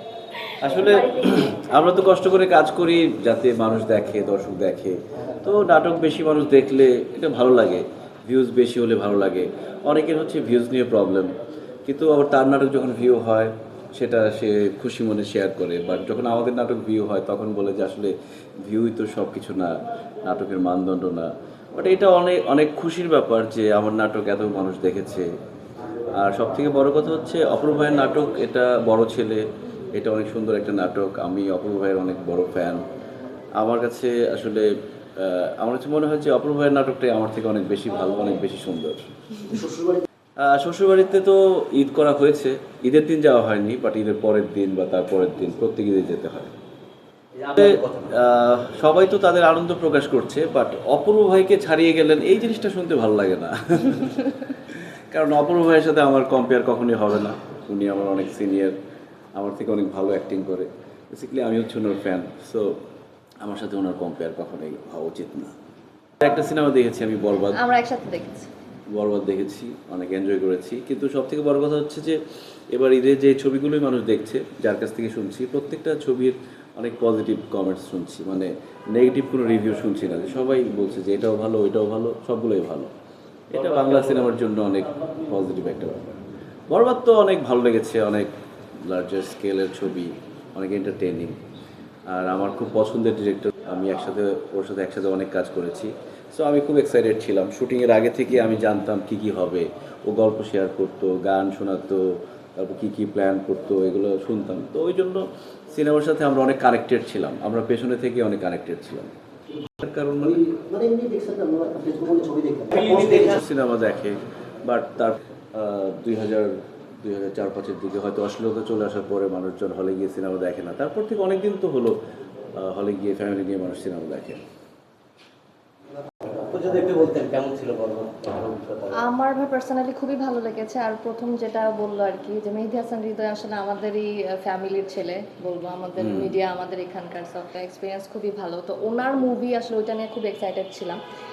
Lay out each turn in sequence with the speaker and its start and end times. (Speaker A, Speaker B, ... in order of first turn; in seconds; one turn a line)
Speaker A: 0.6-11.3
Speaker B: 0.7-1.4
Speaker A: 11.9-25.3
Speaker A: 26.1-29.4
Speaker A: 29.9-32.8
Speaker A: 33.6-39.4
Speaker C: 39.5-40.0
Speaker A: 40.4-46.5
Speaker A: 47.4-58.8
Speaker A: 59.3-62.7
Speaker A: 63.4-65.5
Speaker A: 66.2-67.6
Speaker B: 67.5-68.5
Speaker A: 68.9-72.2
Speaker A: 72.7-82.9
Speaker A: 83.5-88.3
Speaker A: 88.8-91.3
Speaker A: 92.1-109.1
Speaker A: 109.8-110.5
Speaker C: 110.2-113.3
Speaker A: 112.8-122.0
Speaker A: 122.5-124.4
Speaker D: 126.3-129.0
Speaker B: 128.9-141.0
Speaker A: 136.0-136.3